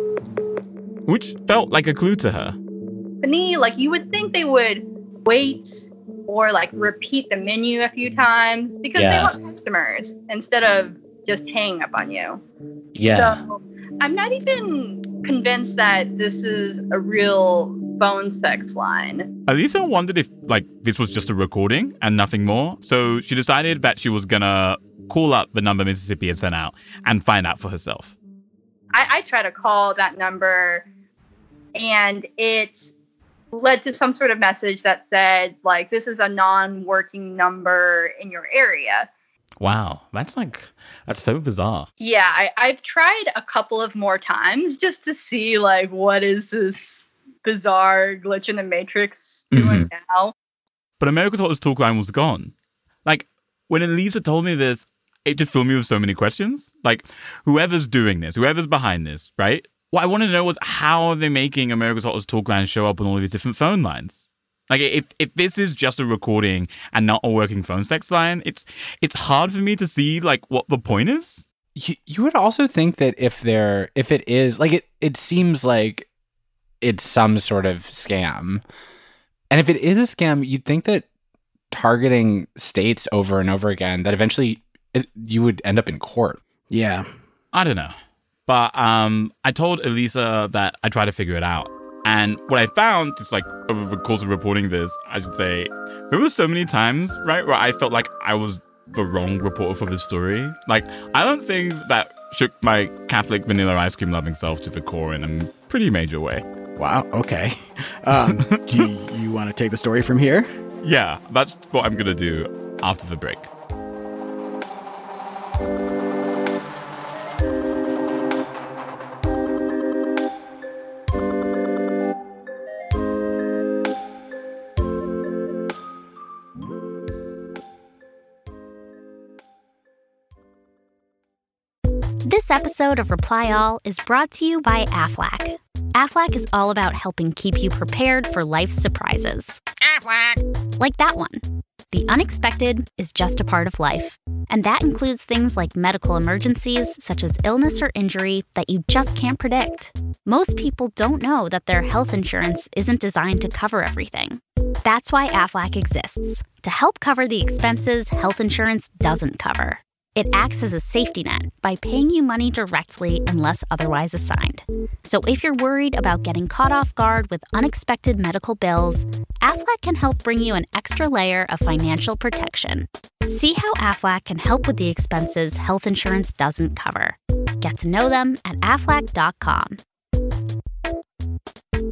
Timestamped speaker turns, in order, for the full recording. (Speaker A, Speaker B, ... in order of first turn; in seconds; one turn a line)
Speaker A: 1.1-2.5
Speaker B: 3.2-12.4
Speaker A: 8.9-9.3
Speaker A: 12.9-13.4
Speaker B: 13.1-19.3
Speaker A: 19.5-28.1
Speaker B: 28.9-30.9
Speaker B: 31.7-32.9
Speaker B: 33.5-39.1
Speaker A: 39.6-41.9
Speaker B: 42.0-50.3
Speaker A: 49.5-49.9
Speaker A: 51.0-52.5
Speaker A: 53.0-71.4
Speaker C: 71.7-76.1
Speaker C: 76.8-78.6
Speaker C: 79.5-81.0
Speaker C: 81.7-86.4
Speaker D: 86.7-87.1
Speaker A: 87.5-88.0
Speaker A: 88.5-106.5
Speaker D: 106.8-110.5
Speaker A: 110.8-113.5
Speaker E: 132.2-139.6
Speaker E: 140.8-179.8